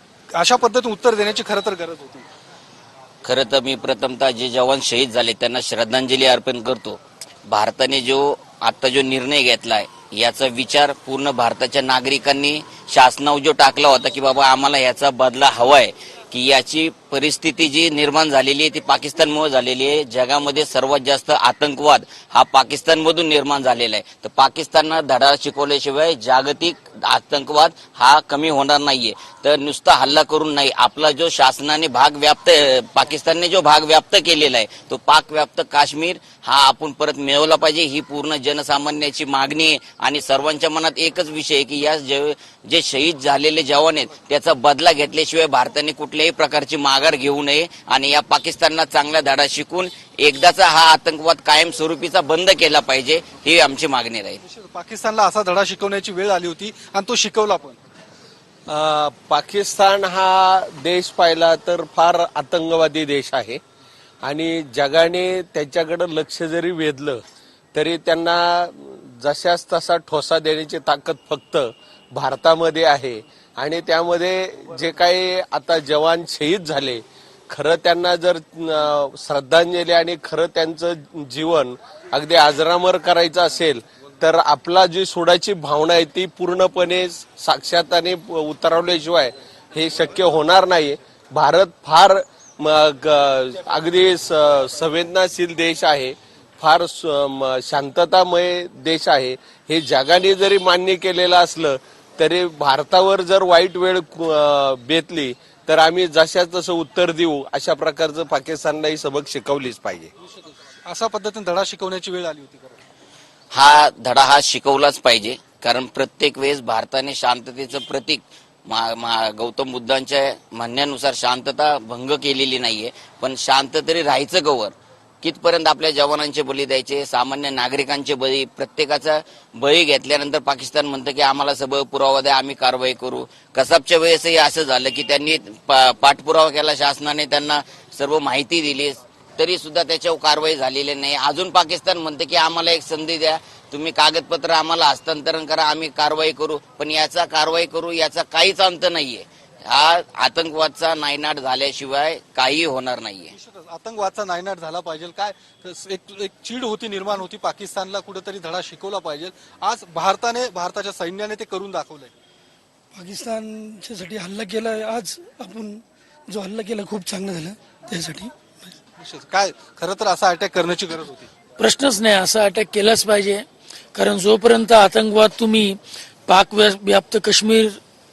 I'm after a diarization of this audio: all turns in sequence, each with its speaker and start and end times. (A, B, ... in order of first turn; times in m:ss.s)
0:00.3-0:02.3 A
0:03.2-0:54.4 B
0:54.4-0:57.8 A
0:58.7-1:03.6 C
1:04.2-1:07.2 C
1:07.7-1:50.1 C
1:50.3-1:52.8 A
1:53.5-2:33.3 B
2:33.3-2:42.1 A
2:43.0-2:45.7 D
2:46.4-2:48.3 D
2:49.0-2:51.3 A
2:51.6-2:53.4 E
2:54.0-2:57.8 E